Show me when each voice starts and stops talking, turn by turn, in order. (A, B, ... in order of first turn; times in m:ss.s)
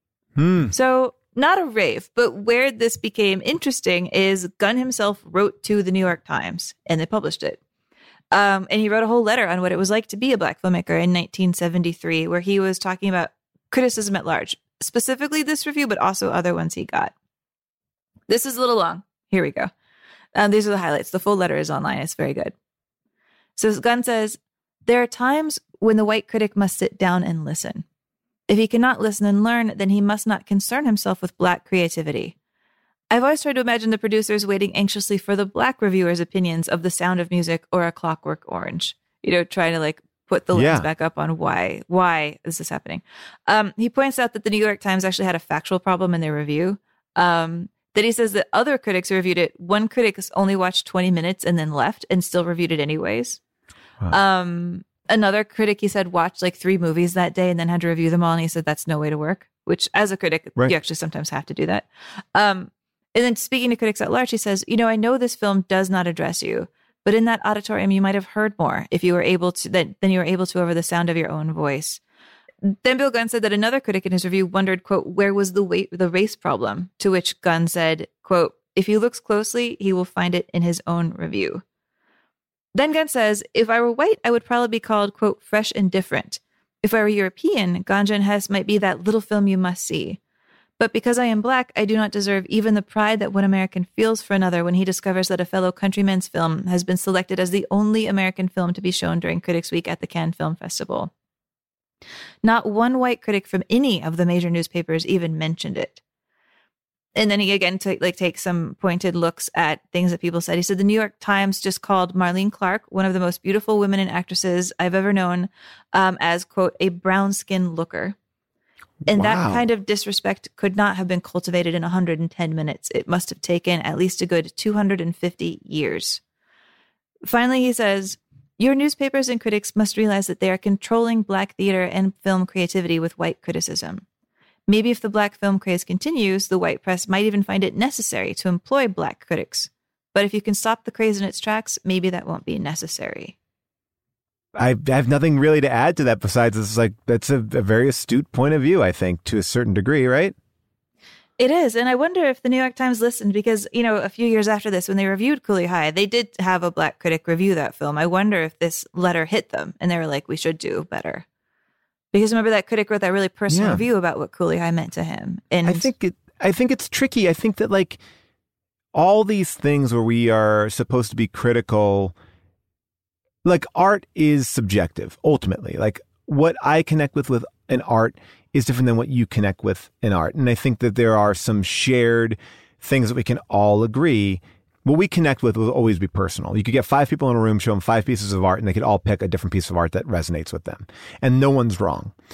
0:00.4-0:00.7 A
0:00.7-0:07.6 B
0:08.3-0:17.1 B
0:18.3-0:19.7 B
0:20.4-0:22.5 B
0:23.6-0:27.8 B
0:28.5-0:32.4 B
0:33.1-0:53.4 B
0:40.5-0:40.9 A
0:54.1-1:12.0 B
1:12.6-1:21.6 B
1:22.8-1:30.2 B
1:30.8-1:41.1 B
1:42.4-1:46.0 B
1:47.2-1:58.2 B
1:59.0-1:59.6 A
1:59.1-2:06.2 B
2:07.3-2:14.0 B
2:14.7-2:23.4 B
2:24.6-2:30.4 A
2:31.4-2:41.2 B
2:42.1-2:45.9 B
2:43.5-2:43.8 A
2:45.6-2:48.0 A
2:48.9-2:52.2 A
2:53.4-3:12.1 A